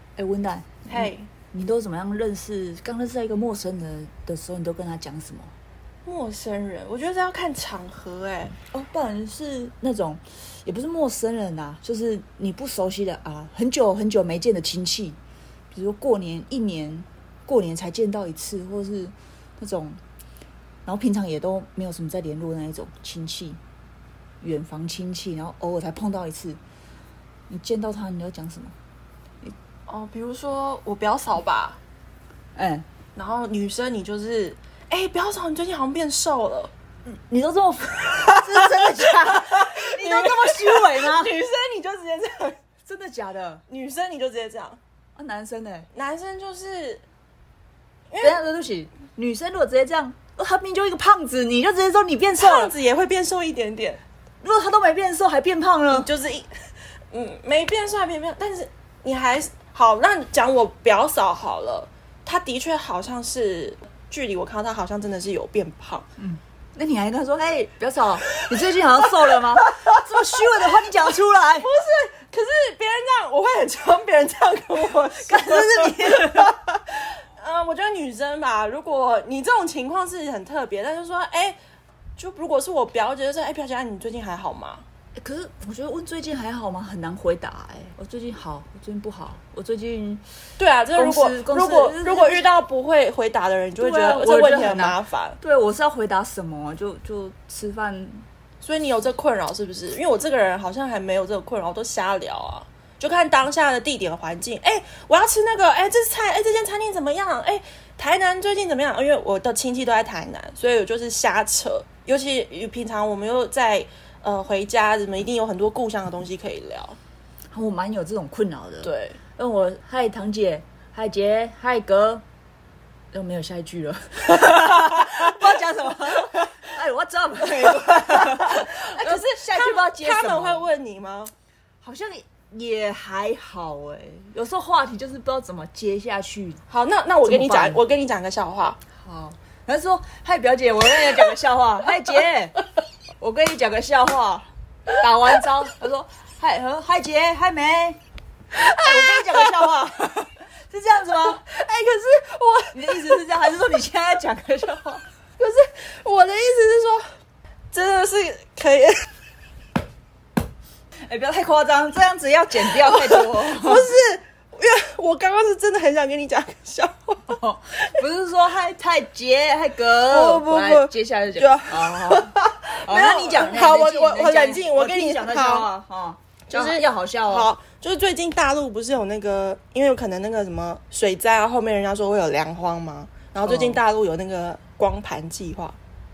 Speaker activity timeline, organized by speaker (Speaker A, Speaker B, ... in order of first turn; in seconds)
Speaker A: 0.2-5.5, 8.7-15.2, 15.7-20.0, 20.9-23.6, 24.4-26.6, 27.5-28.7, 32.6-32.9, 37.1-41.3, 42.9-43.6, 45.2-45.9, 48.2-52.7, 54.4-56.1, 66.2-71.7, 75.1-76.5, 85.2-90.2, 91.0-92.5, 93.8-98.2, 117.5-122.2, 123.1-130.7, 131.8-136.6, 137.2-137.8, 139.0-142.6, 143.2-148.0, 148.6-151.4, 152.7-155.0, 161.1-163.9, 167.3-177.5, 183.5-183.8
Speaker B: 0.9-1.3, 6.0-8.6, 29.9-31.8, 33.1-36.7, 38.0-42.6, 43.7-44.8, 45.9-47.0, 48.1-48.4, 52.4-54.0, 55.9-66.1, 68.5-81.6, 82.2-84.8, 90.6-95.4, 98.6-117.0, 118.8-119.2, 127.5-131.3, 136.7-138.8, 148.6-149.9, 151.2-153.2, 155.4-157.1, 157.7-159.1, 162.7-167.4, 170.1-175.7, 176.5-185.8